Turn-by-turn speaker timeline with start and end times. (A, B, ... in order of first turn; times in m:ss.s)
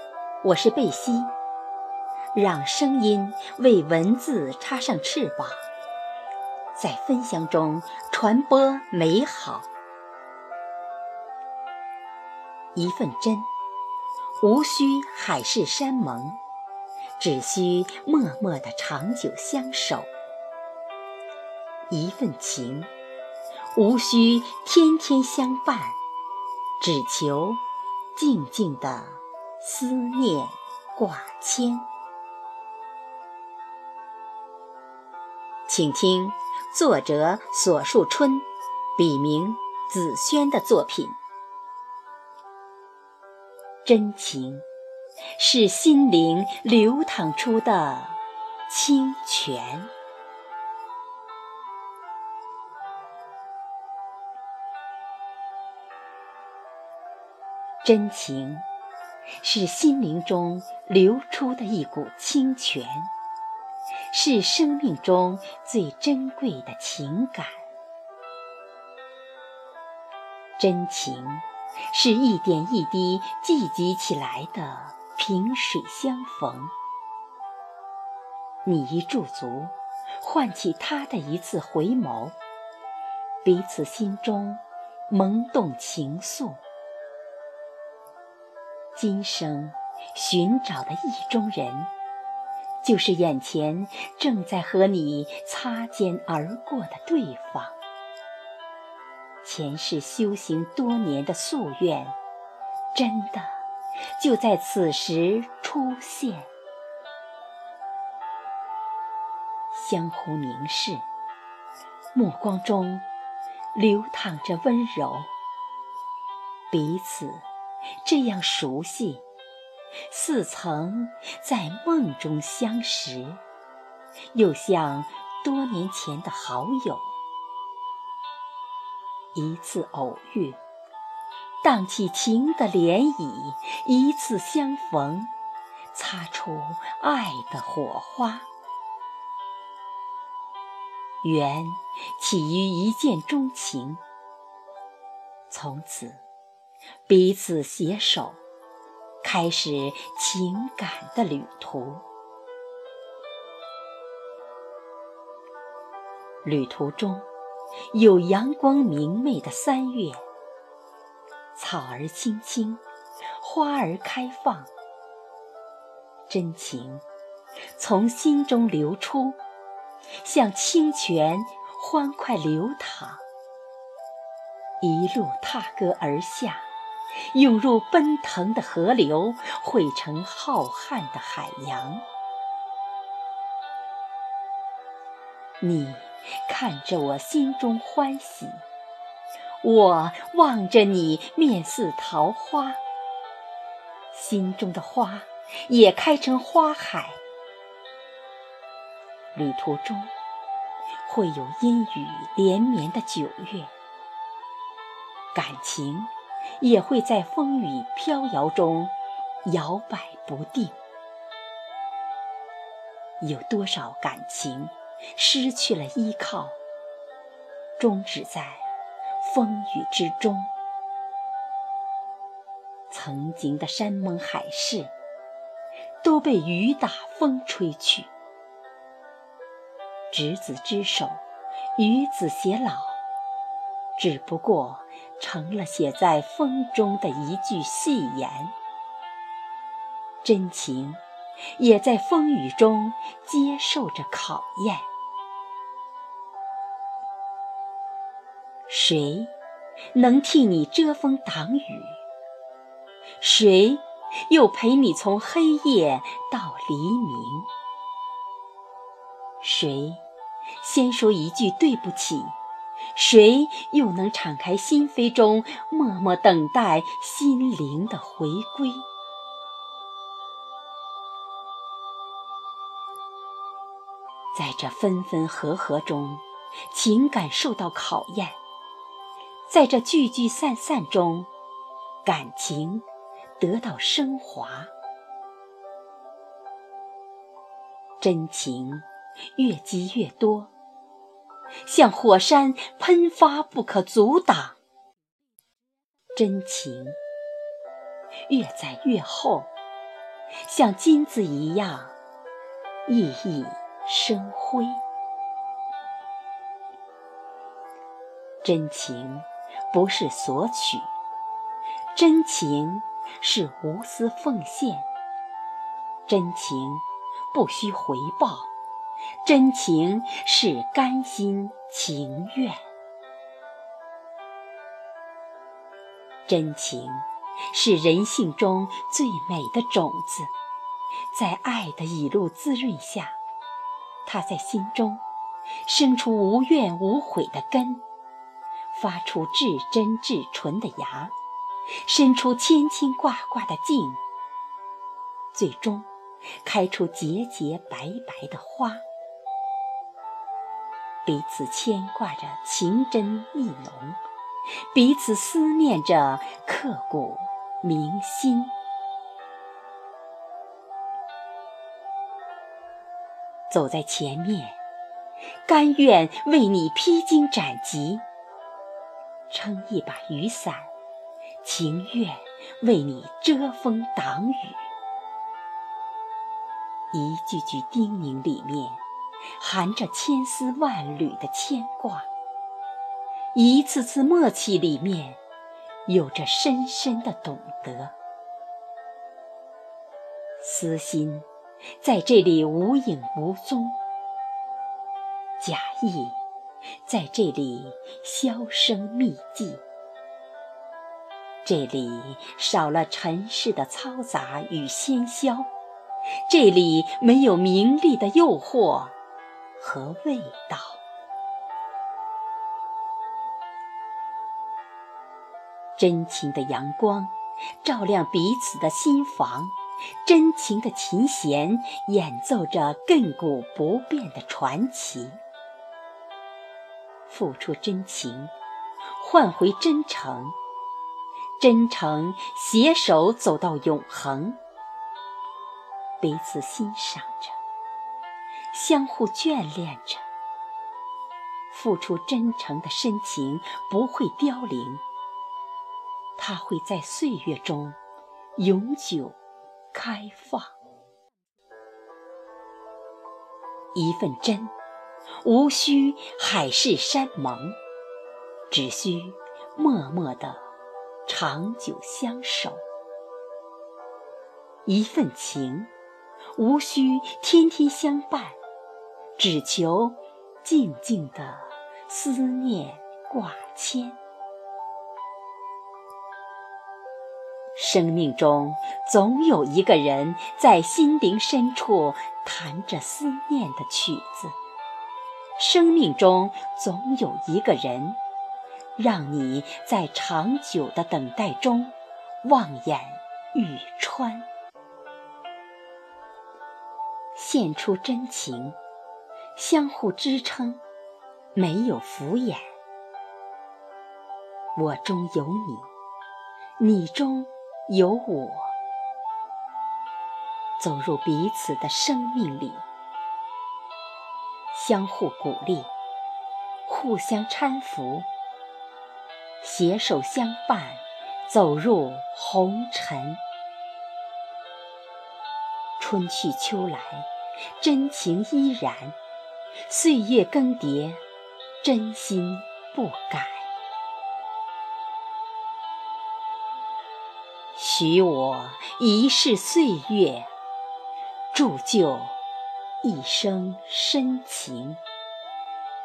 0:00.4-0:01.3 A
0:02.3-0:05.7 A
0:06.8-0:09.7 A
0:12.8-0:13.5 A
0:14.4-0:16.4 A
0:17.2-0:20.1 A
0:21.9-0:22.9 A
0:23.7-0:26.0 A
0:26.8-0:27.6 A
0:28.2-0:31.9 A
0:35.7-0:41.2 A
0:43.8-0:44.6 A
0:45.4-0:49.9 A
0:57.8-0:58.7 A
0:59.4-1:03.1 A
1:04.1-1:07.6 A
1:10.6-1:16.7 A
1:18.6-1:22.4 A
1:23.4-1:26.6 A
1:29.0-1:31.9 A
1:32.8-1:37.8 A
1:39.4-1:42.2 A
1:42.9-1:43.6 A
1:44.2-1:46.5 A
1:49.7-1:51.0 A
1:52.2-1:53.0 A
1:53.7-1:55.3 A
1:56.7-1:57.4 A
1:58.0-1:59.2 A
2:00.1-2:03.4 A
2:04.3-2:07.2 A
2:09.4-2:10.6 A
2:11.6-2:15.3 A
2:15.9-2:18.5 A
2:21.2-2:24.0 A
2:25.5-2:26.2 A
2:27.1-2:28.4 A
2:29.2-2:32.0 A
2:36.4-2:37.3 A
2:37.9-2:40.2 A
2:41.6-2:42.8 A
2:43.4-2:44.7 A
2:46.3-2:47.0 A
2:47.8-2:49.4 A
2:50.2-2:53.2 A
2:54.8-2:56.7 A
2:57.3-3:02.0 A
3:05.6-3:08.6 A
3:09.6-3:12.8 A
3:14.1-3:17.2 A
3:19.4-3:20.1 A
3:21.0-3:23.7 A
3:25.3-3:28.9 A
3:29.4-3:30.8 A
3:33.2-3:36.6 A
3:37.8-3:38.7 A
3:39.2-3:40.5 A
3:42.9-3:44.9 A
3:46.0-3:48.1 A
3:50.1-3:51.2 A
3:51.8-3:53.0 A
3:54.0-3:58.5 A
4:00.2-4:01.0 A
4:01.5-4:04.9 A
4:08.7-4:09.3 A
4:09.9-4:12.0 A
4:13.2-4:17.5 A
4:19.4-4:20.0 A
4:20.6-4:22.4 A
4:22.9-4:28.8 A
4:34.3-4:38.4 A
4:39.5-4:41.3 A
4:42.0-4:42.8 A
4:43.4-4:44.7 A
4:48.0-4:48.8 A
4:49.4-4:50.5 A
4:51.6-4:54.6 A
4:56.2-4:57.0 A
4:58.3-4:59.5 A
5:00.4-5:02.0 A
5:02.9-5:04.8 A
5:08.4-5:10.9 A
5:11.9-5:14.9 A
5:16.1-5:18.5 A
5:19.2-5:22.6 A
5:26.3-5:30.3 A
5:31.1-5:33.2 A
5:34.0-5:35.0 A
5:35.6-5:37.8 A
5:38.7-5:41.2 A
5:41.8-5:44.0 A
5:45.3-5:45.9 A
5:46.4-5:48.8 A
5:51.0-5:54.0 A
5:54.6-5:58.5 A
6:03.5-6:04.6 A
6:05.5-6:08.0 A
6:09.3-6:10.7 A
6:11.4-6:14.7 A
6:16.9-6:18.8 A
6:19.4-6:22.1 A
6:23.3-6:25.2 A
6:25.9-6:28.0 A
6:30.4-6:31.3 A
6:31.8-6:33.8 A
6:35.4-6:36.2 A
6:36.8-6:39.6 A
6:41.4-6:45.5 A
6:46.3-6:49.0 A
6:49.6-6:50.8 A
6:55.8-7:05.2 A
7:07.1-7:08.3 A
7:09.0-7:10.4 A
7:11.4-7:14.4 A
7:16.0-7:17.4 A
7:18.5-7:20.1 A
7:21.5-7:24.8 A
7:26.2-7:27.8 A
7:28.4-7:29.2 A
7:29.7-7:30.6 A
7:33.7-7:34.5 A
7:35.2-7:37.6 A
7:38.5-7:40.5 A
7:41.1-7:42.6 A
7:44.7-7:45.7 A
7:46.4-7:48.4 A
7:49.2-7:54.0 A
7:57.6-8:04.4 A
8:05.4-8:08.0 A
8:08.8-8:14.3 A
8:17.2-8:18.6 A
8:19.4-8:20.6 A
8:21.4-8:22.4 A
8:24.6-8:25.7 A
8:26.6-8:28.5 A
8:30.6-8:32.6 A
8:34.5-8:35.7 A
8:36.7-8:38.1 A
8:39.4-8:43.2 A
8:45.8-8:49.0 A
8:49.7-8:51.0 A
8:51.6-8:53.5 A
8:57.5-9:00.3 A
9:01.3-9:02.2 A
9:02.8-9:04.8 A